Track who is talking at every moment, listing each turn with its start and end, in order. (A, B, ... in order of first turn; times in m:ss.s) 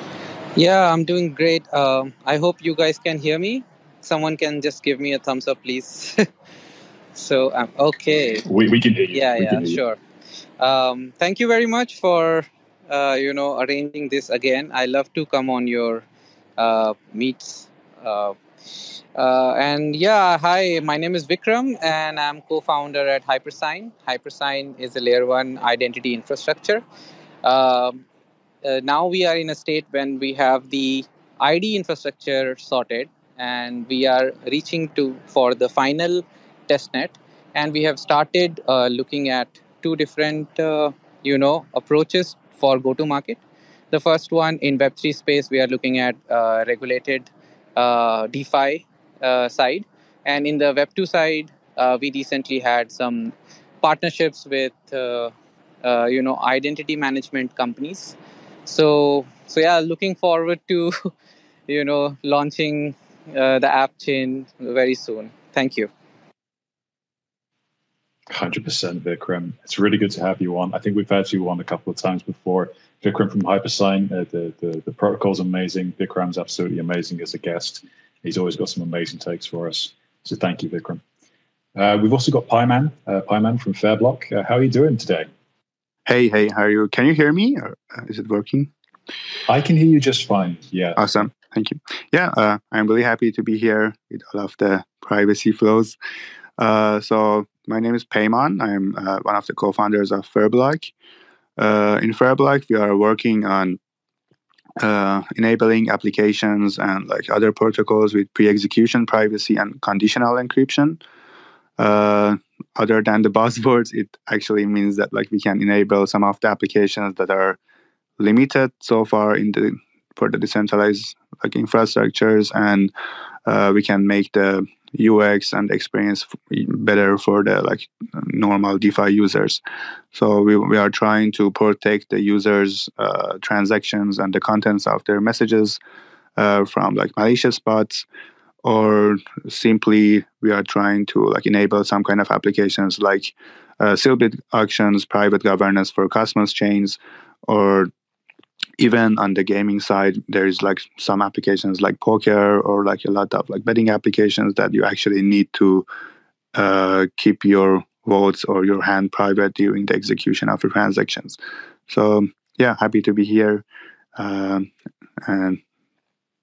0:00.6-0:06.3 A
0:07.1-0:08.4 A
0:08.4-0:09.8 B
0:09.1-0:10.0 A
0:10.6-0:16.0 A
0:16.6-0:18.4 A
0:19.1-0:26.8 A
0:27.4-0:28.0 A
0:28.6-0:43.4 A
0:43.9-1:01.1 A
1:01.7-1:05.9 A
1:08.3-1:21.0 B
1:21.7-1:25.3 B
1:26.0-1:28.7 C
1:29.5-1:31.2 B
1:31.0-1:36.0 C
1:36.6-1:40.9 C
1:41.6-1:43.8 C
1:44.8-1:51.0 C
1:51.8-1:57.6 C
1:58.2-2:02.9 C
2:03.4-2:09.6 C
2:10.1-2:15.8 C
2:16.4-2:18.0 C
2:18.6-2:27.9 C
2:28.8-2:35.9 C
2:36.5-2:43.6 C
2:44.2-2:44.7 C
2:45.2-2:45.6 C